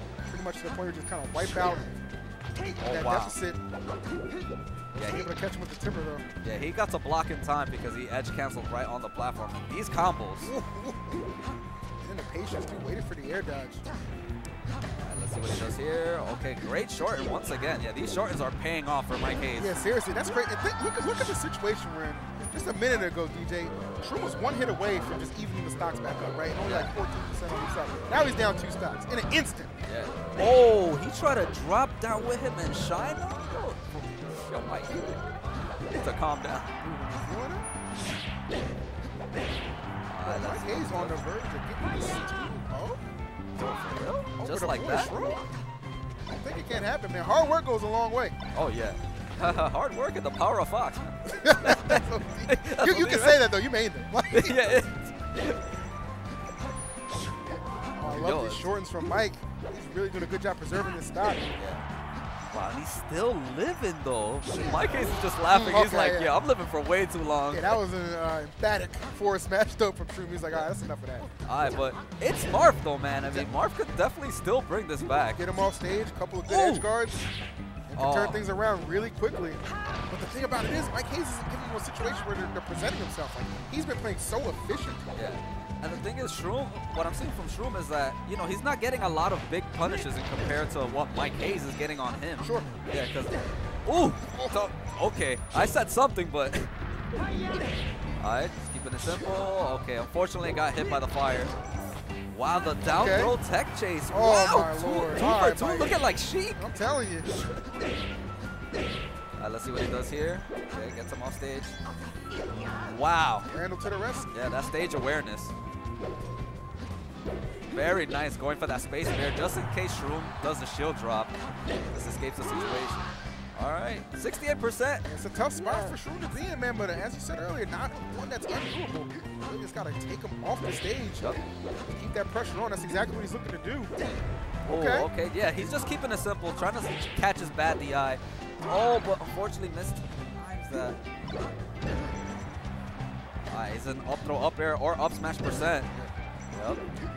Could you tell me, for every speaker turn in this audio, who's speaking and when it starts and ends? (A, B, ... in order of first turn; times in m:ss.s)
0:00.3-0:02.0 A
0:02.7-0:03.6 A
0:02.8-0:03.4 B
0:04.9-0:06.2 A
0:05.0-0:05.3 B
0:06.4-0:10.5 B
0:10.4-0:11.2 A
0:12.0-0:13.9 A
0:15.0-0:19.8 B
0:19.6-0:29.8 A
0:26.6-0:26.9 B
0:29.8-0:35.2 B
0:35.9-0:36.7 B
0:36.8-0:37.6 A
0:40.1-0:41.2 B
0:40.2-0:43.0 A
0:43.6-0:45.1 B
0:44.4-0:45.4 A
0:46.3-0:48.4 A
0:48.5-0:53.5 B
0:51.3-0:54.6 A
0:54.3-0:55.7 B
0:58.0-1:01.6 A
0:58.0-0:58.7 B
1:01.6-1:01.8 B
1:02.5-1:07.8 B
1:04.5-1:06.3 A
1:07.5-1:11.3 A
1:11.4-1:15.4 B
1:15.3-1:17.2 A
1:16.4-1:16.9 B
1:17.9-1:25.2 A
1:18.0-1:18.4 B
1:25.1-1:36.7 B
1:32.4-1:32.7 A
1:38.2-1:41.5 B
1:42.3-1:46.6 B
1:42.9-1:43.3 A
1:44.1-1:46.0 A
1:46.6-1:47.3 A
1:49.4-1:51.7 B
1:52.9-1:53.5 B
1:53.5-1:54.3 A
1:54.3-1:55.5 B
1:57.7-2:01.3 B
2:01.9-2:03.0 B
2:03.6-2:05.0 B
2:05.0-2:13.9 A
2:05.6-2:06.0 B
2:14.6-2:15.1 A
2:14.6-2:21.0 B
2:23.5-2:25.9 B
2:26.5-2:26.8 B